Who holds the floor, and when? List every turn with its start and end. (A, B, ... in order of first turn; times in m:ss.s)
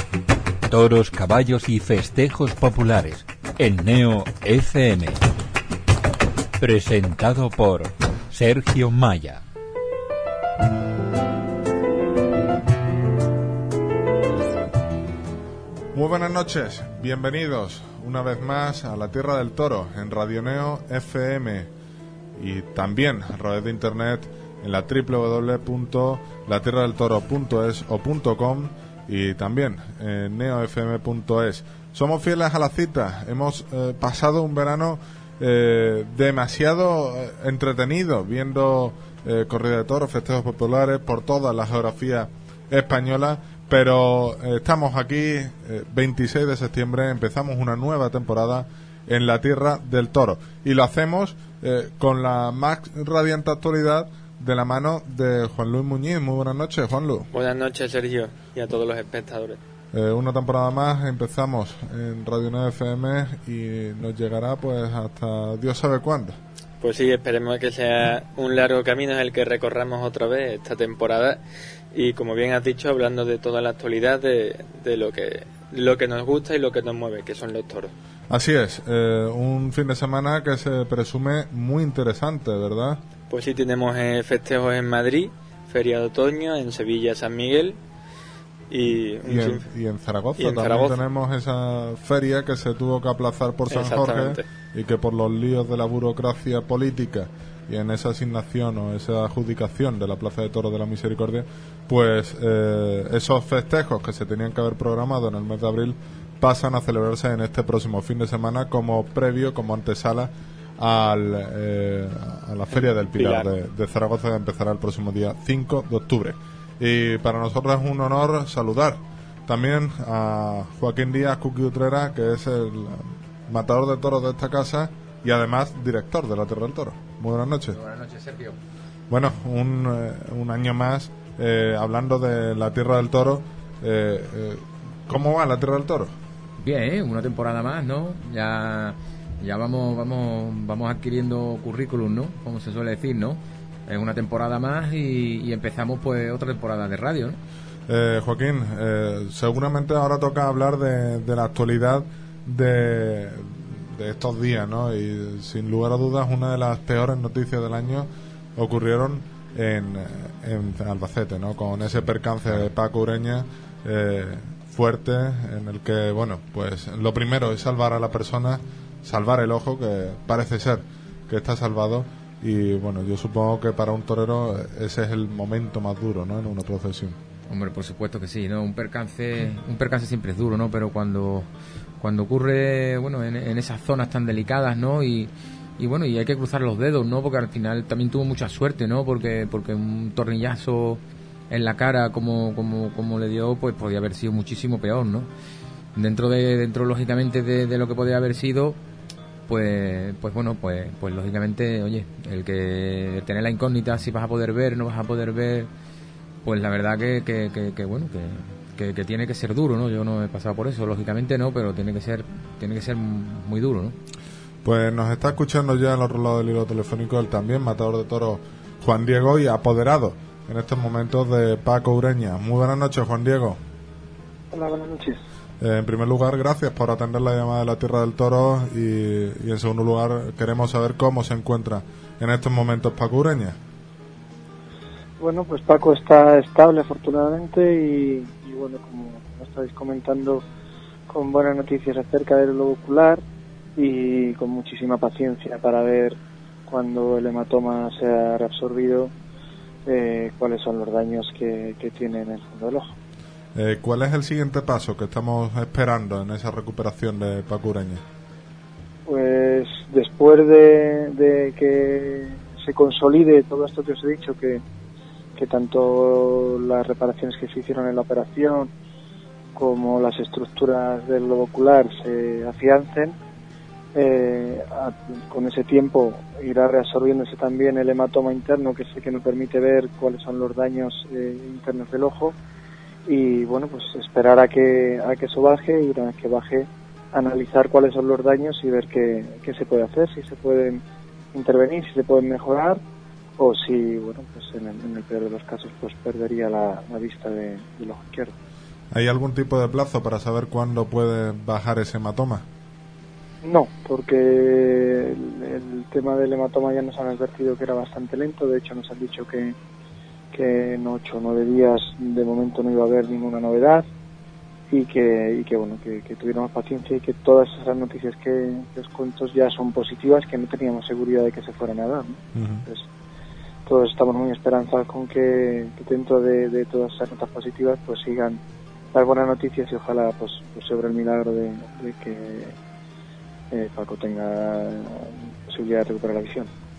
0:00.7-0:05.1 A
0:06.6-0:07.8 A
0:08.3-0:09.4 A
0:15.9-0:21.7 B
0:22.4-0:57.3 B
0:57.3-0:59.6 C
0:59.9-1:06.4 B
1:06.8-1:11.4 C
1:11.9-1:17.9 C
1:18.3-1:23.0 B
1:23.3-1:27.8 C
1:28.7-1:29.7 C
1:29.2-2:07.8 B
1:30.4-1:31.0 C
1:33.7-1:34.4 C
1:52.8-1:53.5 C
2:07.8-2:08.6 D
2:09.1-2:16.1 B
2:16.6-2:27.4 D
2:27.9-2:57.2 B
2:57.5-3:01.5 D
3:02.0-3:11.0 D
3:11.5-3:15.3 D
3:16.0-3:18.8 D
3:19.5-3:25.7 D
3:26.4-3:34.0 D
3:34.6-3:43.6 B
3:44.5-3:45.2 E
3:45.6-3:53.6 B
3:55.2-4:00.4 E
4:01.1-4:03.2 E
4:03.8-4:09.1 E
4:09.8-4:12.9 E
4:13.6-4:18.0 B
4:19.1-4:24.6 E
4:25.4-4:28.7 E
4:29.6-4:33.1 E
4:33.9-4:42.4 E
4:43.0-4:50.8 E
4:51.3-4:52.8 E
4:53.4-4:58.3 E
4:58.9-5:02.4 B
5:03.4-5:09.6 E
5:10.3-5:13.8 E
5:14.7-5:22.9 E
5:22.3-5:22.6 B
5:23.6-5:28.4 E
5:28.9-5:32.6 E
5:33.5-5:36.5 E